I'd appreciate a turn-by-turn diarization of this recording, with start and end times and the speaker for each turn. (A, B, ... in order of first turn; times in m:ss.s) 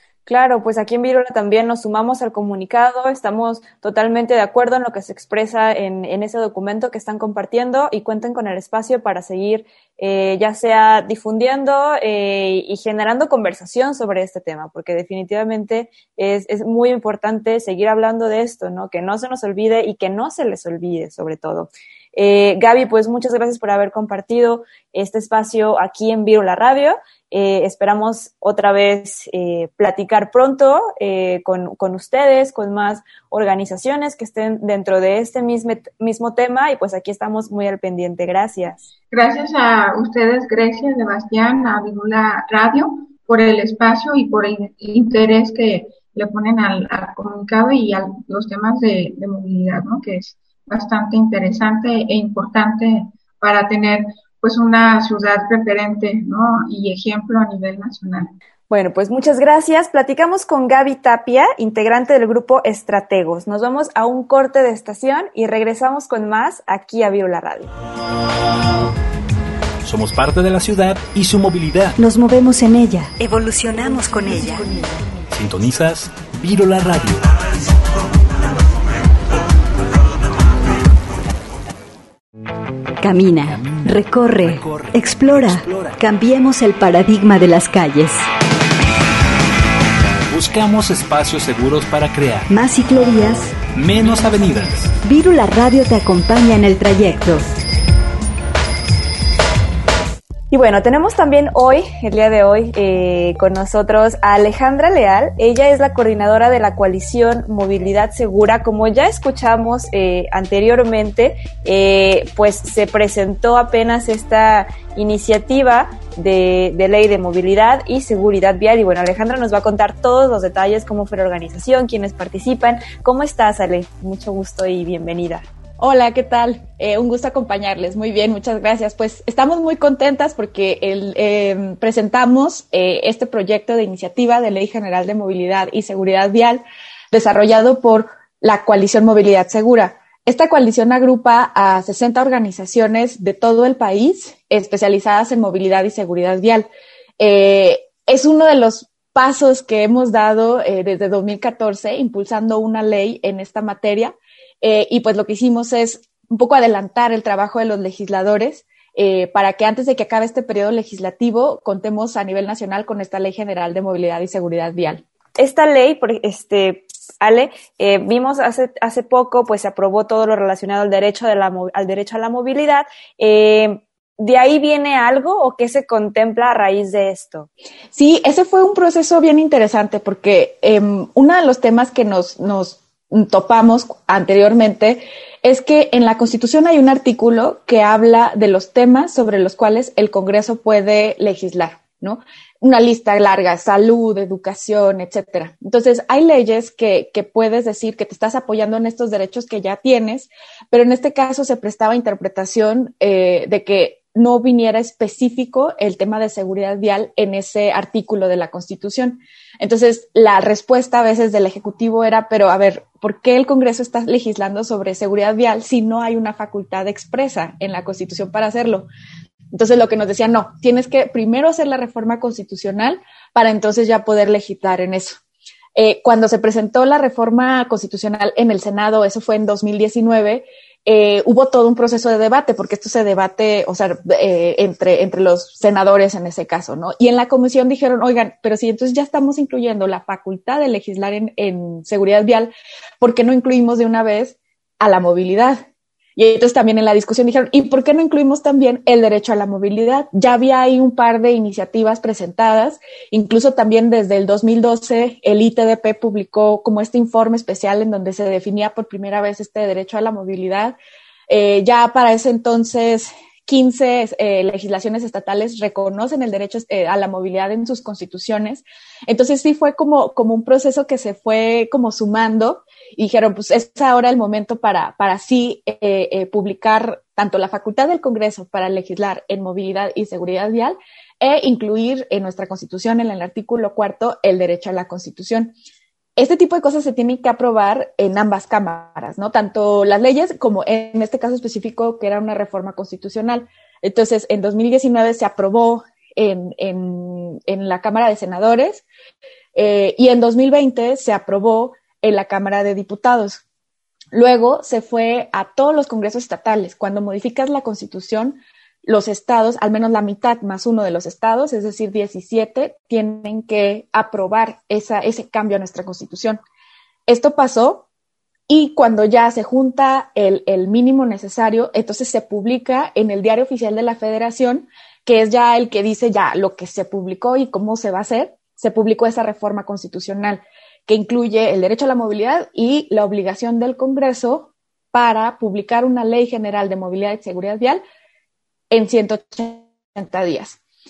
0:00.3-0:38.8 A
0:39.1-0:58.3 B
0:58.7-1:07.7 A
1:09.8-1:12.0 C
1:12.0-1:14.9 D
1:15.3-1:17.3 C
1:23.0-1:28.2 D
1:23.6-1:23.8 C
1:24.5-1:24.9 C
1:30.3-1:32.5 C
1:32.5-1:33.6 D
1:33.7-1:34.9 C
1:35.0-1:37.5 D
1:40.5-2:05.4 A
2:05.8-2:26.7 E
2:27.2-2:45.0 E
2:45.4-2:57.5 A
2:57.9-3:38.9 E
3:39.5-3:45.2 E
3:45.8-4:05.6 E
4:06.2-4:20.8 E
4:21.3-4:45.5 E
4:46.2-4:58.8 E
4:59.5-5:03.4 E
5:04.1-5:16.4 E
5:17.1-5:17.8 E
5:18.5-5:37.8 E
5:38.7-5:40.6 E